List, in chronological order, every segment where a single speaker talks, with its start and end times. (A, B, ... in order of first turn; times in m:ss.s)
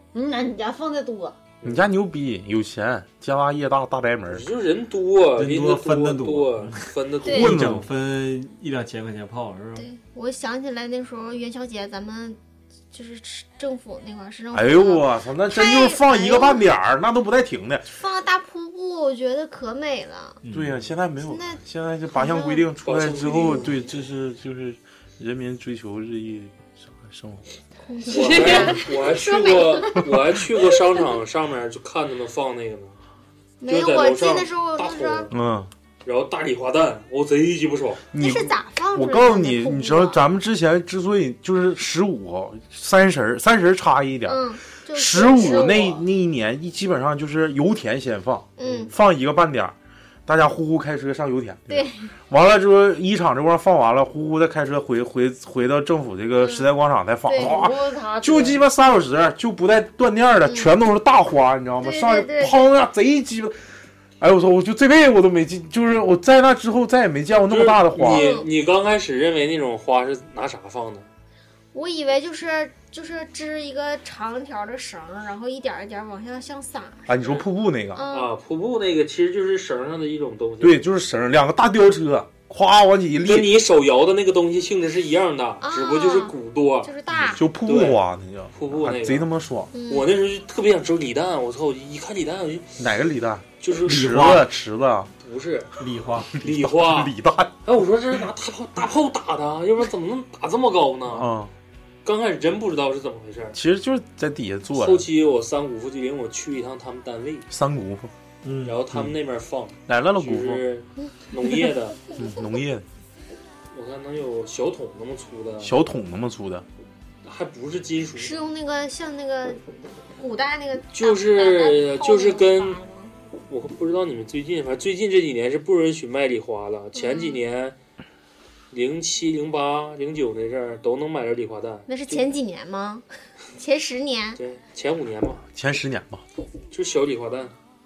0:00.1-0:01.4 A
0:01.6-0:04.4 B
0:04.3-0:07.5 C
0:05.4-0:09.9 D
0:07.3-0:07.8 B
0:09.8-0:12.4 E
0:12.9-0:16.6 E
0:14.5-0:17.9 B
0:17.9-0:20.4 E
0:20.4-0:20.8 D
0:20.5-0:27.4 B
0:21.2-0:21.6 E
0:22.1-0:22.7 E
0:22.8-0:23.8 C
0:23.3-0:23.7 E
0:27.8-0:30.1 E
0:28.1-0:33.0 C
0:33.6-0:35.3 E
0:33.7-0:35.3 C
0:35.3-0:35.7 B
0:36.0-0:38.0 C
0:38.1-0:49.7 B
0:38.2-0:40.2 E
0:44.2-0:46.0 E
0:48.6-0:48.9 E
0:50.2-1:03.6 B
0:51.7-0:52.1 E
0:56.4-0:56.7 E
0:57.2-0:57.6 E
0:57.4-0:58.6 A
1:00.4-1:00.7 E
1:01.8-1:02.6 E
1:04.2-1:08.4 B
1:07.5-1:11.1 C
1:08.0-1:08.5 E
1:11.7-1:17.3 E
1:17.1-1:18.0 B
1:17.9-1:18.3 E
1:18.1-1:20.8 C
1:20.6-1:23.5 B
1:23.2-1:28.0 C
1:25.6-1:27.4 E
1:27.3-1:29.7 B
1:28.5-1:29.3 C
1:29.7-1:30.1 E
1:29.9-1:32.8 C
1:32.8-1:35.1 B
1:33.6-1:34.3 C
1:33.9-1:34.4 D
1:35.2-1:35.7 C
1:35.8-1:36.4 D
1:36.4-1:37.1 C
1:36.4-1:37.5 B
1:37.6-1:41.3 C
1:41.1-1:41.5 B
1:42.0-1:43.6 C
1:43.5-1:45.1 B
1:44.7-1:47.5 C
1:47.5-1:48.1 B
1:48.4-1:48.8 D
1:48.6-1:52.0 C
1:49.9-1:50.6 B
1:52.2-1:52.8 B
1:53.7-1:55.8 C
1:55.6-1:56.6 B
1:57.2-1:58.4 C
1:58.2-1:59.6 E
2:00.2-2:03.1 E
2:00.9-2:02.8 C
2:03.5-2:07.8 C
2:06.9-2:07.4 E
2:08.7-2:12.3 C
2:11.9-2:14.4 E
2:14.4-2:15.4 C
2:15.5-2:16.2 B
2:16.7-2:17.5 C